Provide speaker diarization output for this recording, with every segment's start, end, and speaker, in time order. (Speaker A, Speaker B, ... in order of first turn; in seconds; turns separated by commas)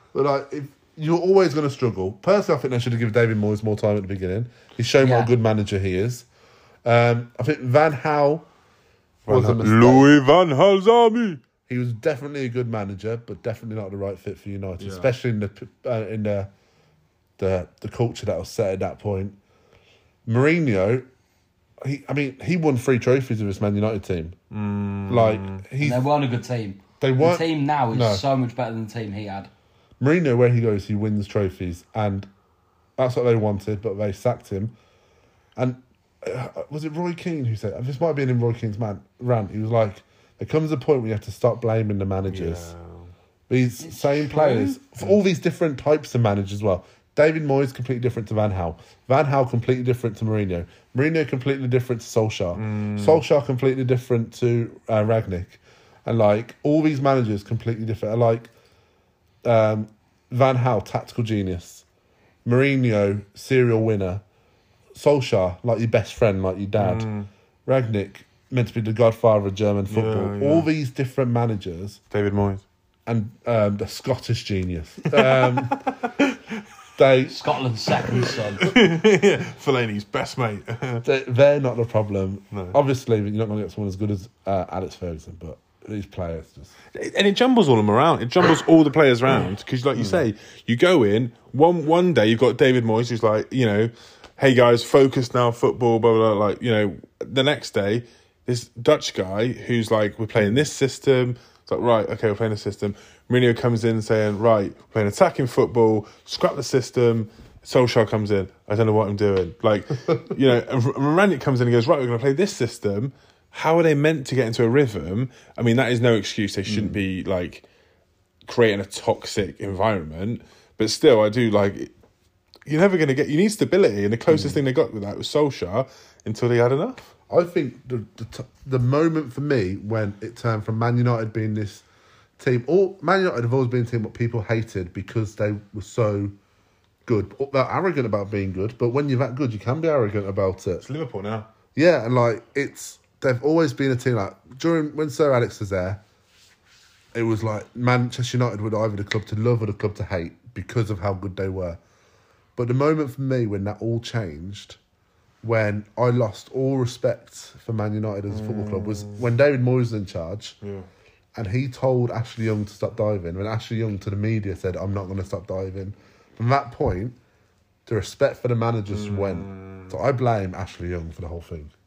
Speaker A: 0.1-6.3, Speaker B: 5.0-5.3, Speaker A: 6.8-8.5, Speaker A: 9.3-10.1, Speaker C: 9.3-11.4, Speaker A: 11.7-16.5, Speaker C: 14.8-15.1, Speaker A: 17.4-19.4, Speaker A: 20.3-21.1, Speaker A: 21.8-24.4, Speaker C: 24.5-25.6, Speaker A: 25.1-26.1, Speaker B: 25.8-29.5, Speaker A: 27.0-28.2, Speaker A: 30.0-32.3, Speaker A: 33.0-34.8, Speaker A: 35.6-42.7, Speaker C: 42.3-43.1, Speaker A: 43.5-58.5, Speaker B: 43.8-44.8, Speaker C: 52.5-53.2, Speaker A: 59.4-61.9, Speaker A: 62.5-64.2, Speaker A: 65.0-67.1, Speaker C: 66.8-67.3, Speaker A: 67.7-72.0, Speaker C: 69.9-70.7, Speaker C: 72.1-72.6, Speaker A: 73.1-75.8, Speaker C: 75.1-76.5, Speaker A: 77.0-77.4, Speaker B: 77.3-78.7, Speaker C: 78.1-81.0, Speaker A: 81.0-86.7, Speaker C: 82.5-82.8, Speaker C: 87.0-117.6, Speaker A: 90.0-90.2, Speaker A: 116.7-117.0, Speaker C: 118.5-121.9, Speaker C: 122.7-127.1, Speaker A: 124.3-124.6, Speaker A: 127.3-131.8, Speaker A: 132.4-136.3, Speaker A: 137.1-140.8, Speaker C: 140.8-141.5, Speaker A: 141.8-146.0, Speaker A: 147.1-151.8, Speaker A: 152.6-154.8, Speaker A: 155.4-160.6, Speaker C: 158.3-159.3, Speaker C: 160.6-160.9, Speaker A: 161.3-167.2, Speaker A: 167.9-171.7, Speaker C: 168.9-170.0